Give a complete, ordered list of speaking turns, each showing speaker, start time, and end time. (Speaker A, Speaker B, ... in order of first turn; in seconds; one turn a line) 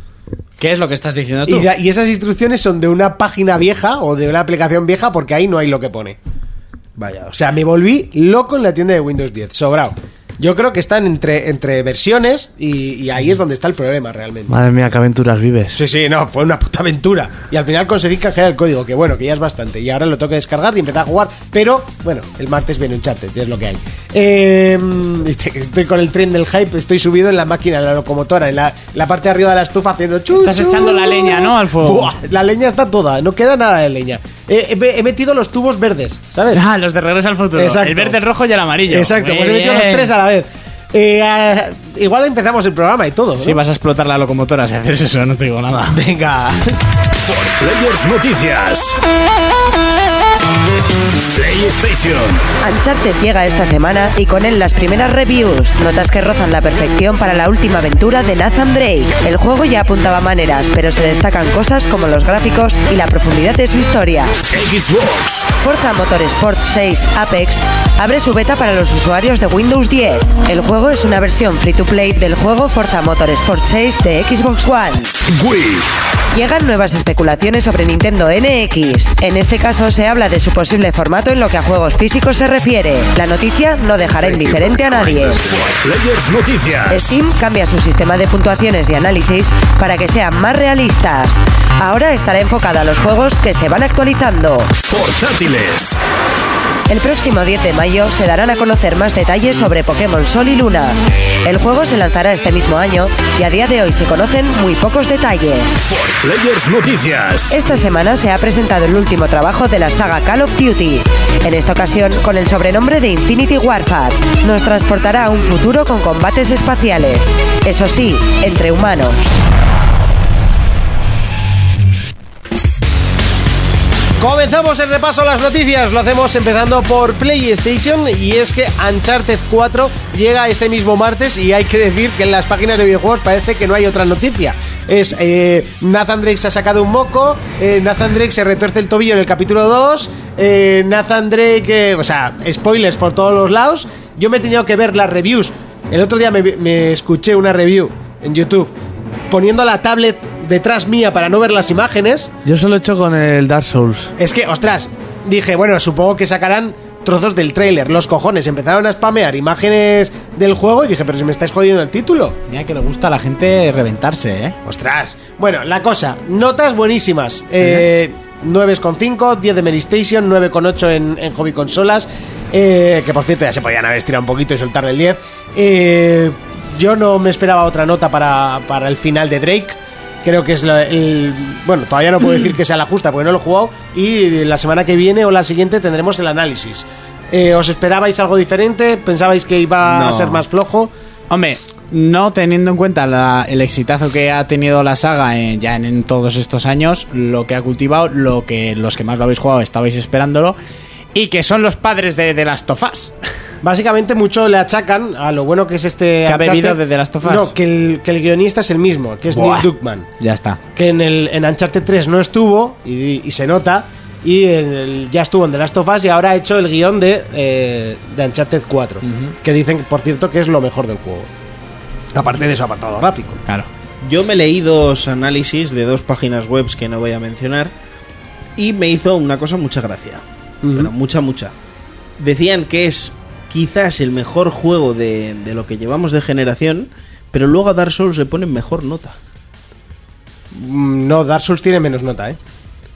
Speaker A: 0.6-1.7
Speaker B: 1.5-6.2
Speaker C: 7.0-7.4
Speaker B: 7.3-14.6
Speaker D: 14.5-15.8
Speaker B: 15.7-36.6
Speaker A: 30.3-32.1
Speaker A: 36.5-40.1
Speaker B: 37.6-38.2
Speaker B: 38.9-43.6
Speaker A: 43.4-46.0
Speaker B: 45.9-46.8
Speaker E: 47.2-49.0
Speaker E: 51.3-52.4
Speaker F: 52.6-64.3
Speaker E: 64.5-65.5
Speaker F: 65.6-75.1
Speaker E: 75.3-75.9
Speaker F: 76.3-85.6
Speaker E: 84.2-87.2
Speaker F: 86.9-94.8
Speaker E: 94.9-96.0
Speaker F: 96.9-105.8
Speaker E: 105.9-107.6
Speaker F: 107.5-119.3
Speaker B: 124.2-148.7
Speaker B: 149.3-152.3
Speaker D: 152.4-154.1
Speaker B: 154.2-162.4
Speaker A: 162.5-164.6
Speaker B: 164.7-190.9
Speaker C: 189.9-190.4
Speaker A: 191.3-200.6
Speaker A: 201.1-203.2
Speaker B: 203.6-210.1
Speaker A: 206.3-207.5
Speaker A: 209.3-210.6
Speaker B: 210.8-221.3
Speaker A: 219.1-219.3
Speaker B: 222.1-223.4
Speaker C: 224.0-227.7
Speaker C: 228.6-231.5
Speaker B: 230.6-230.9
Speaker C: 232.2-239.2
Speaker B: 240.5-242.4